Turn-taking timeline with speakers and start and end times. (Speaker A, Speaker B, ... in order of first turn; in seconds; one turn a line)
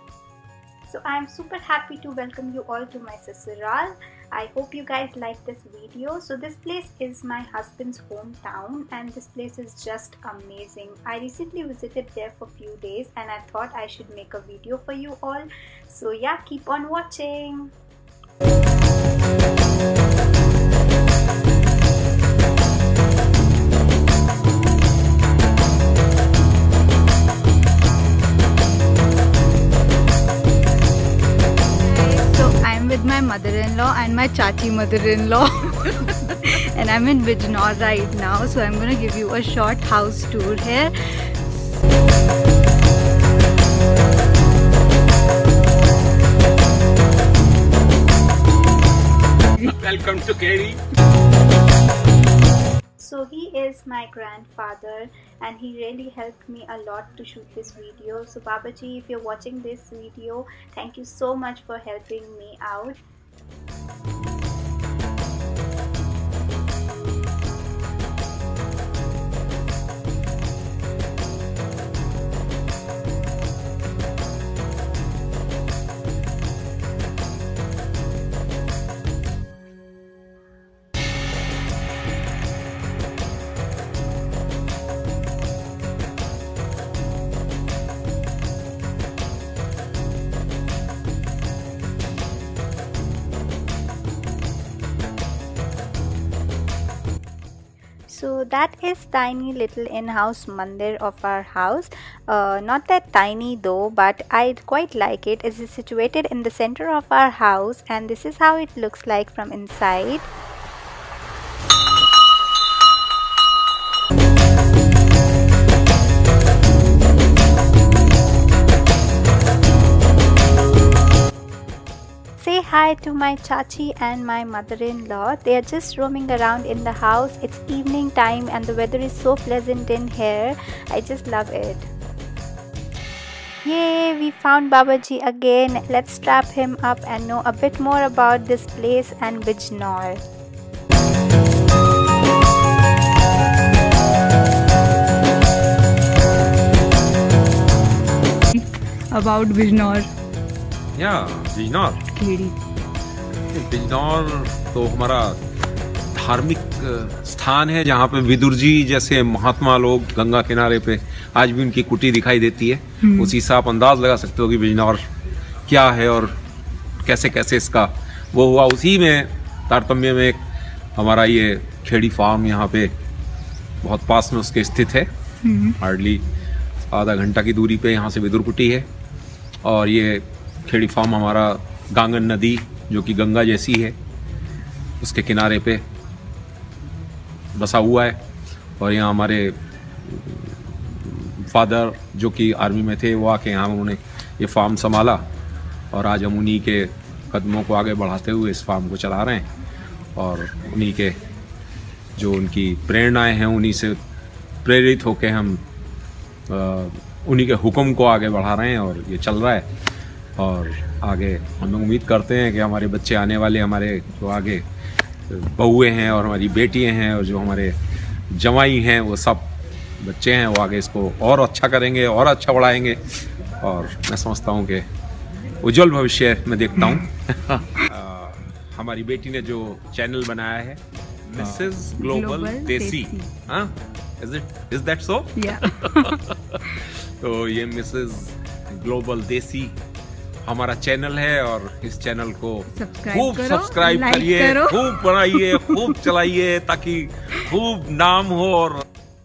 Speaker A: 0.8-17.7
Speaker A: 31.9-35.9
Speaker A: 36.8-40.9
Speaker B: 49.6-50.8
Speaker A: 53.0-63.0
Speaker A: 98.1-110.3
Speaker A: 122.4-131.9
Speaker A: 133.6-140.2
Speaker C: 148.5-150.1
Speaker B: 151.0-152.0
Speaker C: 152.1-152.6
Speaker B: 153.5-155.4
Speaker B: 156.1-165.1
Speaker B: 165.7-166.4
Speaker B: 167.0-170.4
Speaker B: 171.0-172.9
Speaker B: 173.8-175.1
Speaker C: 175.4-175.8
Speaker B: 175.8-176.2
Speaker B: 176.9-178.9
Speaker B: 179.6-184.0
Speaker B: 185.0-185.8
Speaker B: 187.6-188.2
Speaker B: 188.8-195.2
Speaker B: 195.9-199.5
Speaker B: 200.2-201.2
Speaker B: 202.2-204.0
Speaker B: 204.6-205.6
Speaker B: 206.5-209.7
Speaker B: 210.4-214.6
Speaker B: 215.3-217.7
Speaker B: 218.3-223.0
Speaker B: 223.6-224.9
Speaker B: 225.6-239.8
Speaker C: 231.6-233.3
Speaker C: 235.4-236.2
Speaker B: 240.4-248.8
Speaker C: 242.7-246.1